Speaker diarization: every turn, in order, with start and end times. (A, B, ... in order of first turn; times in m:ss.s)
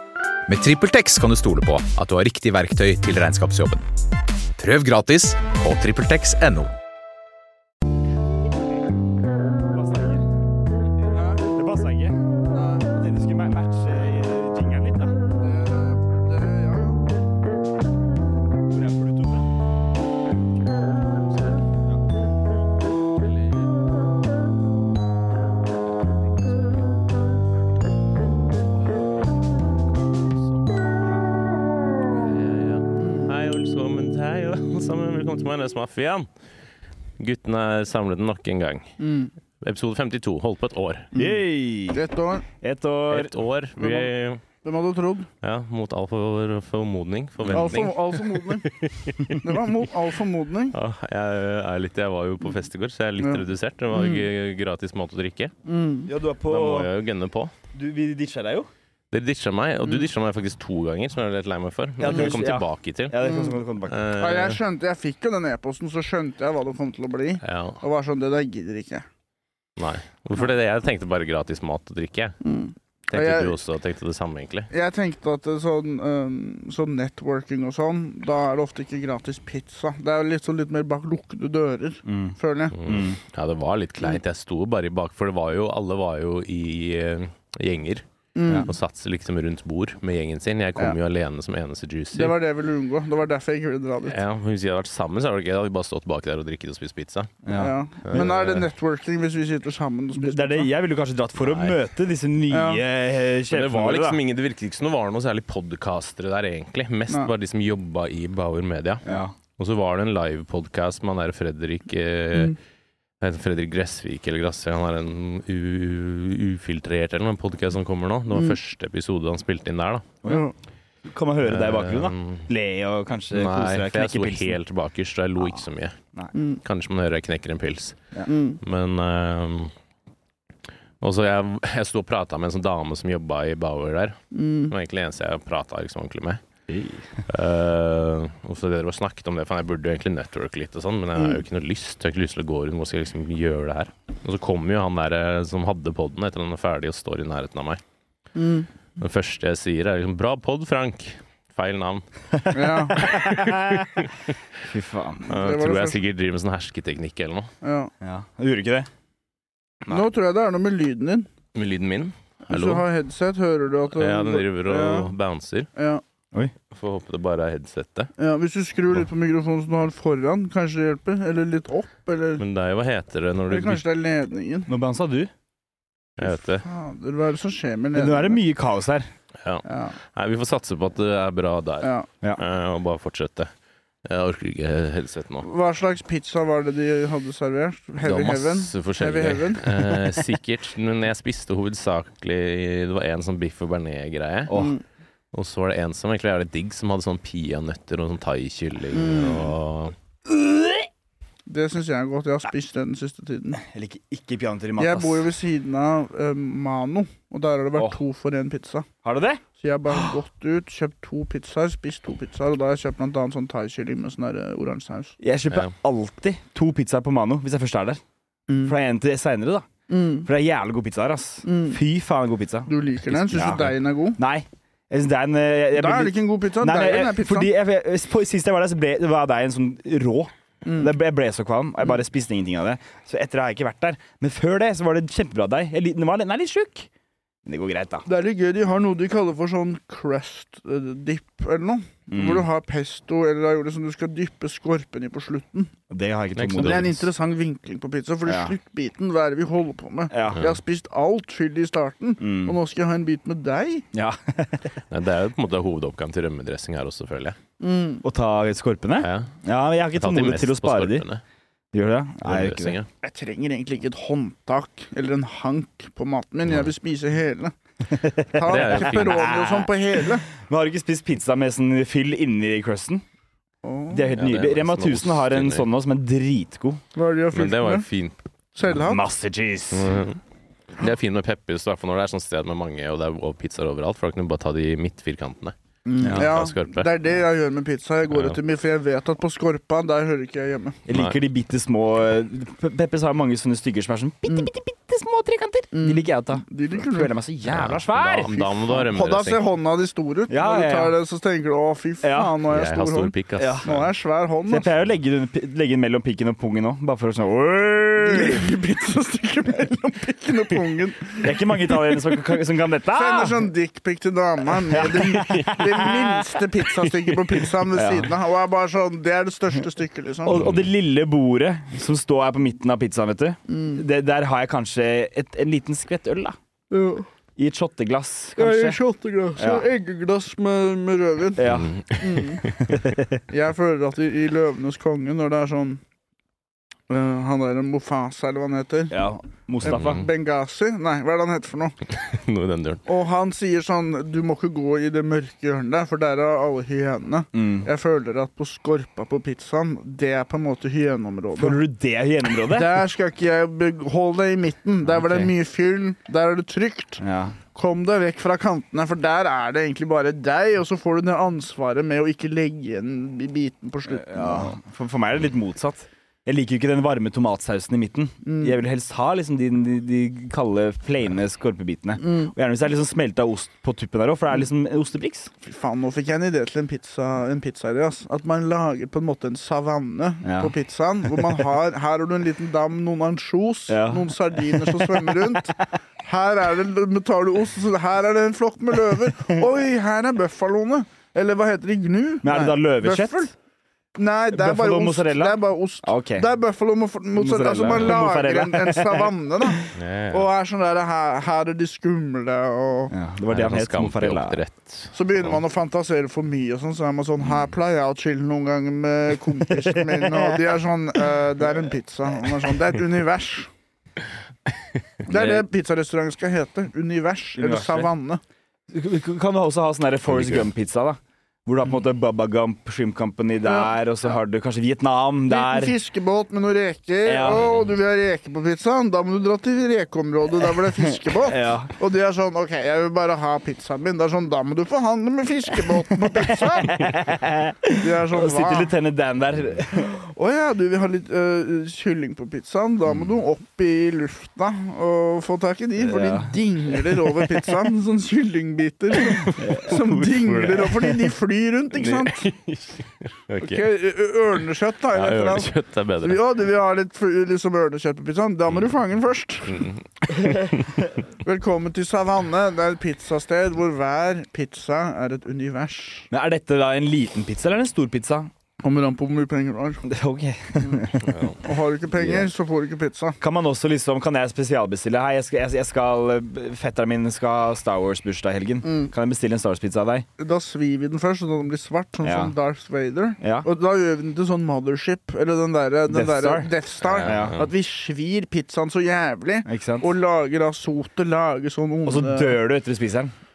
0:00.5-0:03.8 A
0:04.6-0:06.7 A
0:09.7-0:10.2 B
0:11.1-0:11.4 C
0:11.4-0:12.2 B
0:12.5-0:12.9 C
0:12.9-0:15.2 B
0:15.4-0:17.1 C
0:18.7-0:19.5 B
0:21.3-0:21.6 D
0:23.2-0:23.8 D
0:25.9-0:26.9 D
0:30.3-0:30.7 D
0:32.1-0:36.3 D
0:33.0-0:33.3 C
0:37.2-0:39.0 D
0:39.0-0:39.3 C
0:39.6-0:41.1 D
0:41.1-0:42.0 B
0:41.9-0:42.4 C
0:42.6-0:43.3 B
0:43.1-0:44.4 D
0:43.8-0:44.1 C
0:44.6-0:45.3 C
0:45.4-0:49.5 D
0:47.4-0:47.7 B
0:47.5-0:48.7 C
0:49.3-0:50.8 C
0:50.7-0:55.5 D
0:53.2-0:54.2 C
0:55.6-0:56.1 C
0:56.0-0:56.9 B
0:56.4-0:57.5 D
0:57.7-0:58.7 B
0:59.1-1:03.2 D
1:02.0-1:04.0 B
1:03.2-1:03.6 C
1:03.9-1:04.6 D
1:04.2-1:09.0 C
1:07.4-1:07.8 D
1:09.8-1:12.4 D
1:12.4-1:13.6 C
1:13.1-1:14.7 D
1:14.7-1:22.8 C
1:22.0-1:23.2 B
1:22.8-1:28.0 D
1:28.3-1:28.7 C
1:28.6-1:32.4 D
1:32.1-1:34.2 C
1:34.0-1:37.3 D
1:37.4-1:38.3 B
1:37.5-1:40.7 C
1:38.0-1:38.7 D
1:40.2-1:44.2 B
1:41.4-1:41.8 D
1:42.5-1:42.8 C
1:43.5-1:49.0 D
1:49.0-1:49.3 B
1:49.6-1:52.6 D
1:53.2-2:00.1 D
2:00.2-2:00.5 C
2:01.1-2:04.6 B
2:01.4-2:02.5 D
2:03.3-2:06.0 D
2:06.3-2:06.6 C
2:06.6-2:08.0 D
2:08.3-2:08.6 C
2:08.6-2:09.7 D
2:11.0-2:16.4 D
2:14.3-2:14.7 C
2:16.7-2:17.2 B
2:17.3-2:27.8 D
2:21.2-2:21.4 C
2:28.4-2:28.7 C
2:29.0-2:32.0 D
2:32.4-2:33.8 B
2:32.5-2:33.0 C
2:33.0-2:34.3 D
2:34.6-2:35.3 B
2:35.3-2:36.0 C
2:35.3-2:37.5 D
2:37.6-2:37.9 C
2:38.0-2:38.9 B
2:39.9-2:41.3 C
2:41.5-2:42.8 D
2:42.5-2:45.1 C
2:43.9-2:45.7 D
2:45.8-2:46.0 C
2:46.7-2:48.1 D
2:48.2-2:52.4 C
2:52.4-2:53.8 D
2:53.5-2:54.7 C
2:54.7-2:55.3 B
2:56.2-2:56.6 D
2:56.2-2:58.4 C
2:57.9-2:59.1 B
2:59.4-3:03.5 D
2:59.6-3:00.0 C
3:01.8-3:02.1 C
3:04.0-3:05.5 D
3:05.4-3:10.2 C
3:08.0-3:14.6 D
3:14.5-3:14.8 B
3:14.5-3:14.8 C
3:15.3-3:19.9 D
3:18.9-3:19.5 C
3:21.5-3:23.6 C
3:23.6-3:25.2 B
3:24.8-3:28.9 C
3:29.0-3:30.2 B
3:29.6-3:35.2 C
3:35.2-3:38.0 B
3:38.5-3:38.7 C
3:38.6-3:39.7 B
3:39.9-3:40.3 C
3:40.2-3:56.9 B
3:41.4-3:41.8 C
3:42.7-3:44.2 C
3:45.7-3:47.5 C
3:50.6-3:50.9 C
3:57.4-3:58.0 B
3:58.0-4:05.7 C
4:02.1-4:02.4 B
4:05.9-4:07.0 B
4:06.4-4:06.8 D
4:06.6-4:13.8 C
4:08.3-4:08.5 B
4:10.1-4:10.5 B
4:12.2-4:12.6 B
4:13.9-4:14.7 B
4:14.9-4:17.4 D
4:17.6-4:18.0 C
4:18.0-4:21.0 B
4:19.0-4:19.3 D
4:19.9-4:21.2 D
4:21.7-4:22.8 B
4:22.2-4:22.9 D
4:23.0-4:27.5 C
4:27.9-4:29.7 B
4:28.3-4:30.3 C
4:28.4-4:29.5 D
4:30.3-4:33.0 B
4:33.6-4:34.1 C
4:33.9-4:36.8 B
4:34.1-4:35.7 D
4:36.9-4:37.9 C
4:37.3-4:38.2 D
4:38.6-4:39.0 C
4:38.7-4:40.0 B
4:39.7-4:40.2 D
4:40.8-4:45.5 D
4:45.9-4:50.8 C
4:46.0-4:46.2 B
4:46.1-4:46.9 D
4:48.1-4:48.4 D
4:50.9-4:58.4 B
4:50.9-4:51.2 D
4:55.7-4:57.1 C
4:57.5-4:59.4 D
4:58.3-5:04.6 C
5:00.3-5:01.0 B
5:02.0-5:02.3 B
5:02.4-5:03.9 D
5:03.4-5:03.6 B
5:04.5-5:08.4 B
5:08.0-5:12.3 C
5:11.2-5:13.5 B
5:12.9-5:20.4 C
5:14.5-5:16.9 B
5:17.7-5:18.1 B
5:20.2-5:26.4 B
5:20.4-5:20.6 D
5:23.5-5:23.8 C
5:26.7-5:27.1 C
5:27.4-5:28.8 B
5:28.4-5:32.4 C
5:29.4-5:29.6 B
5:31.4-5:31.7 B
5:31.4-5:32.8 D
5:32.7-5:33.2 B
5:33.3-5:35.8 C
5:36.9-5:39.0 C
5:38.9-5:40.0 B
5:39.6-5:41.7 C
5:39.6-5:40.0 D
5:41.9-5:42.8 D
5:42.9-5:51.6 C
5:47.3-5:47.7 B
5:51.4-5:52.8 B
5:52.4-5:57.0 C
5:54.9-5:55.3 B
5:57.0-5:57.4 B
5:57.5-6:04.5 C
6:03.9-6:15.3 B
6:08.2-6:08.6 C
6:15.4-6:33.3 C
6:20.2-6:20.5 B
6:21.1-6:21.4 B
6:23.7-6:25.4 B
6:32.2-6:33.3 B
6:33.9-6:42.9 C
6:34.3-6:36.3 B
6:37.2-6:39.6 B
6:39.7-6:40.3 D
6:42.9-6:44.4 B
6:43.3-6:45.4 D
6:44.9-6:53.5 C
6:49.5-6:50.4 B
6:52.1-6:52.5 B
6:55.1-6:58.2 C
6:55.1-6:55.4 B
6:57.3-6:57.9 B
6:58.7-7:05.7 B
7:00.0-7:00.5 D
7:03.4-7:03.7 C
7:05.3-7:17.0 C
7:07.0-7:07.4 B
7:07.2-7:07.7 D
7:11.0-7:11.7 B
7:15.6-7:19.9 B
7:17.7-7:18.7 C
7:19.7-7:32.3 C
7:25.8-7:27.3 B
7:29.4-7:29.7 B
7:29.7-7:31.1 D
7:31.7-7:33.7 D
7:33.4-7:39.6 C
7:34.9-7:36.2 D
7:39.5-7:40.6 D
7:41.2-7:46.1 C
7:46.1-7:48.3 B
7:48.6-7:49.8 C
7:49.8-7:51.1 B
7:50.6-7:50.8 C
7:51.0-7:51.4 D
7:51.4-7:53.2 C
7:52.0-7:52.3 B
7:53.2-8:00.0 B
7:58.6-7:58.9 C
8:00.2-8:12.4 C
8:02.0-8:02.3 B
8:03.2-8:03.5 B
8:05.9-8:07.4 B
8:06.8-8:07.5 D
8:09.4-8:09.9 B
8:11.8-8:13.1 B